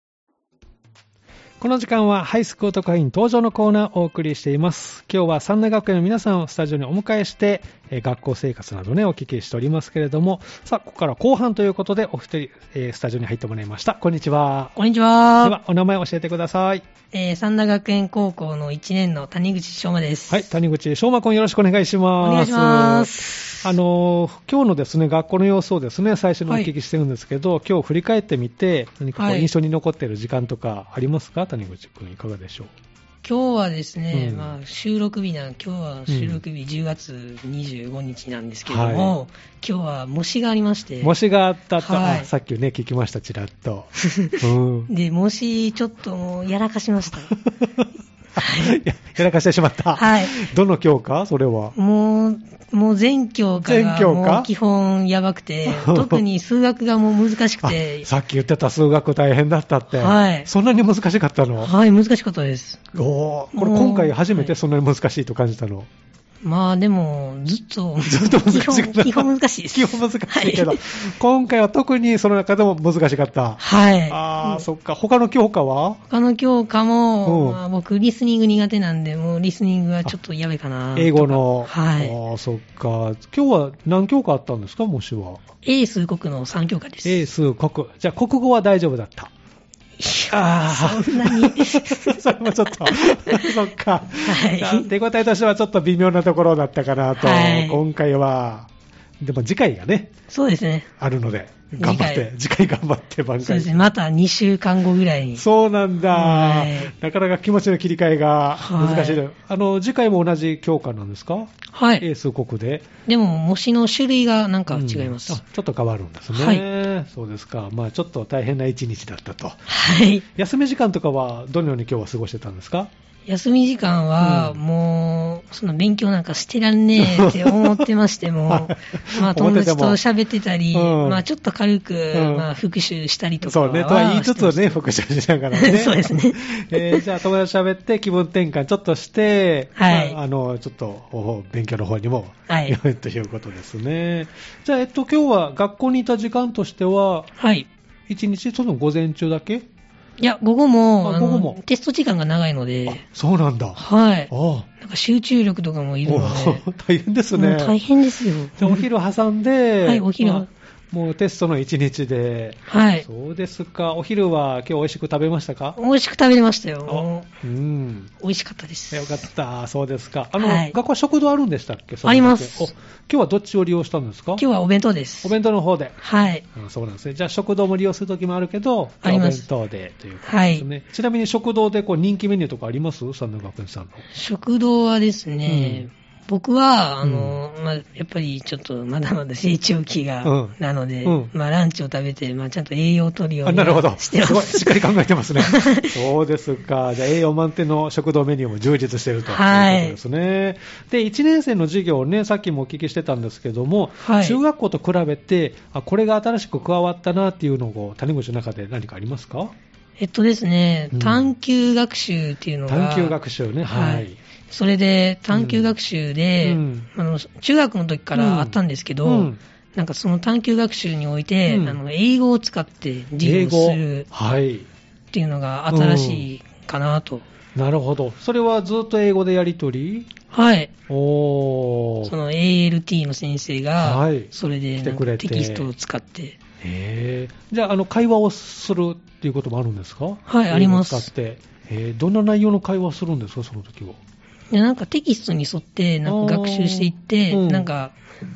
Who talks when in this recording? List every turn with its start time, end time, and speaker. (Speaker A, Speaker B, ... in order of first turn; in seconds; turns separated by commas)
Speaker A: 1.6-14.8, Speaker B: 14.8-15.6, Speaker A: 15.4-16.9, Speaker B: 17.1-20.4, Speaker A: 20.3-32.7, Speaker B: 22.2-23.7, Speaker B: 29.2-29.5, Speaker B: 33.2-41.1, Speaker A: 34.1-34.6, Speaker A: 36.1-36.4, Speaker A: 38.6-39.2, Speaker A: 41.0-44.9, Speaker B: 41.8-42.3, Speaker B: 44.1-47.3, Speaker A: 47.3-51.8, Speaker B: 48.4-48.8, Speaker B: 50.0-50.4, Speaker B: 51.8-58.1, Speaker A: 53.6-54.5, Speaker A: 55.7-56.2, Speaker A: 57.6-61.7, Speaker B: 59.9-60.5, Speaker B: 61.6-62.8, Speaker A: 62.9-65.9, Speaker B: 63.5-64.5, Speaker B: 66.4-70.8, Speaker A: 68.0-76.0, Speaker B: 73.6-74.7, Speaker B: 76.1-82.2, Speaker A: 77.2-77.6, Speaker A: 81.0-85.4, Speaker B: 85.6-87.2, Speaker A: 87.0-89.3, Speaker B: 90.0-92.2, Speaker A: 90.3-98.7, Speaker B: 92.8-93.6, Speaker B: 94.2-94.9, Speaker B: 97.2-97.8, Speaker A: 99.2-100.1, Speaker B: 100.3-100.9, Speaker A: 101.0-103.9, Speaker B: 101.8-102.2, Speaker B: 103.4-105.4, Speaker A: 105.4-112.9, Speaker B: 106.1-106.9, Speaker B: 108.6-109.2, Speaker B: 111.7-112.0, Speaker B: 113.1-115.4, Speaker A: 114.7-119.7, Speaker B: 116.3-116.6, Speaker B: 119.7-120.2, Speaker A: 120.3-122.9, Speaker B: 123.3-134.8, Speaker A: 124.2-124.6, Speaker A: 127.0-127.9, Speaker A: 128.5-130.0, Speaker A: 130.7-131.2, Speaker A: 132.1-132.5, Speaker A: 133.4-147.3, Speaker B: 135.5-137.0, Speaker B: 139.8-140.2, Speaker B: 142.5-142.8, Speaker B: 147.4-147.7, Speaker A: 148.1-149.7, Speaker B: 150.2-153.0, Speaker A: 151.0-151.6, Speaker A: 152.9-154.7, Speaker B: 153.8-156.6, Speaker A: 156.1-157.8, Speaker B: 157.3-158.8, Speaker A: 158.6-165.8, Speaker B: 159.8-160.5, Speaker B: 162.7-163.1, Speaker B: 165.8-167.3, Speaker A: 166.9-168.1, Speaker B: 168.2-169.1, Speaker A: 168.9-174.4, Speaker B: 170.4-170.7, Speaker B: 172.1-172.7, Speaker B: 174.4-175.3, Speaker A: 175.2-184.0, Speaker B: 176.0-176.4, Speaker B: 179.0-179.4, Speaker B: 180.2-180.7, Speaker B: 184.1-194.8, Speaker A: 185.5-185.9, Speaker A: 187.0-187.4, Speaker A: 190.2-191.3, Speaker A: 193.4-209.5, Speaker B: 195.4-195.9, Speaker B: 199.3-200.0, Speaker B: 204.0-204.4, Speaker B: 210.0-213.1, Speaker A: 210.9-211.3, Speaker A: 212.7-214.2, Speaker B: 213.7-224.1, Speaker A: 215.3-215.8, Speaker A: 216.4-216.9, Speaker A: 218.1-219.4, Speaker A: 221.5-221.8, Speaker A: 223.2-224.7, Speaker B: 225.1-227.2, Speaker A: 225.7-226.3, Speaker A: 227.6-230.1, Speaker B: 230.3-230.7, Speaker A: 230.9-232.1, Speaker B: 232.1-236.4, Speaker A: 233.8-235.7, Speaker A: 236.6-244.0, Speaker B: 240.3-241.1, Speaker B: 244.5-248.0, Speaker A: 246.1-247.7